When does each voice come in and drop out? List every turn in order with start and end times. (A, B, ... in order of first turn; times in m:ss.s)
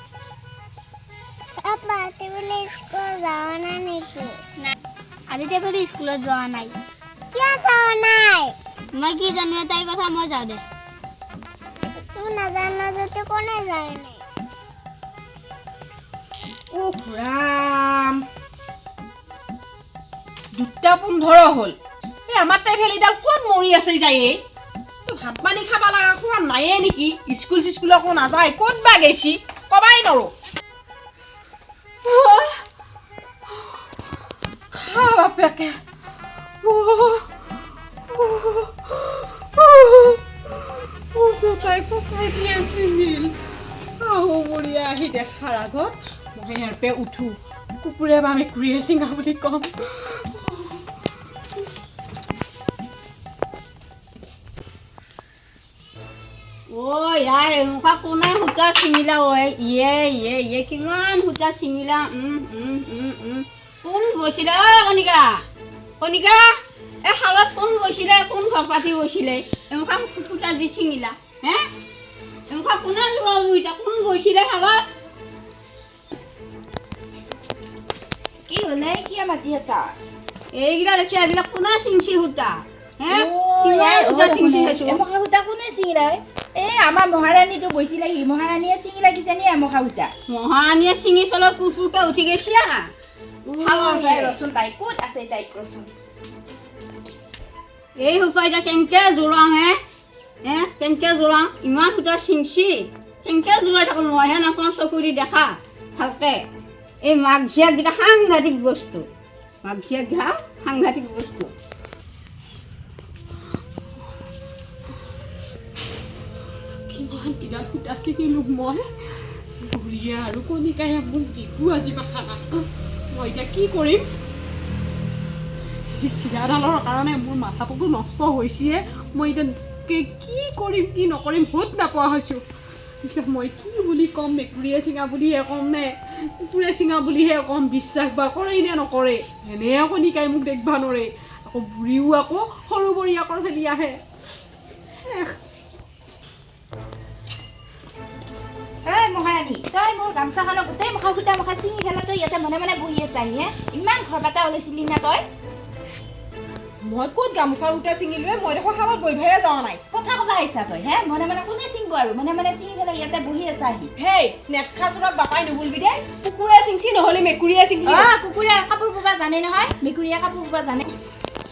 0:01.6-0:04.4 A
0:05.3-0:06.8 B
0:07.3-0:08.6 A
0:08.9-0:10.6 B
0:12.0-0:14.2 A
0:16.7-0:18.2 C
0:20.5-0:21.8 C
0:22.3-0:24.4 C
0:25.0-0:30.3 C
0:32.0-0:32.6 C
0:33.5-0:33.8 C
0:34.7-0:35.8 C
0:36.6-0:37.3 C
0:38.1-0:43.3 C
0:44.0-0:50.7 C
0:56.7-1:05.4 D
1:06.0-1:11.7 D
1:12.5-1:14.9 D
1:18.5-1:19.9 E
1:20.5-1:25.0 D
1:23.1-1:30.1 E
1:30.3-1:32.9 D
1:33.5-1:35.9 E
1:33.6-1:34.4 D
1:38.0-1:39.8 D
1:40.4-1:46.5 D
1:47.0-1:49.1 D
1:49.6-1:51.5 D
1:56.9-1:58.9 C
1:59.6-2:04.1 C
2:06.0-2:12.4 C
2:13.0-2:24.0 C
2:25.0-2:25.4 C
2:28.8-2:35.2 E
2:36.8-2:39.8 C
2:39.9-2:43.9 E
2:44.0-2:48.1 C
2:47.8-2:50.9 E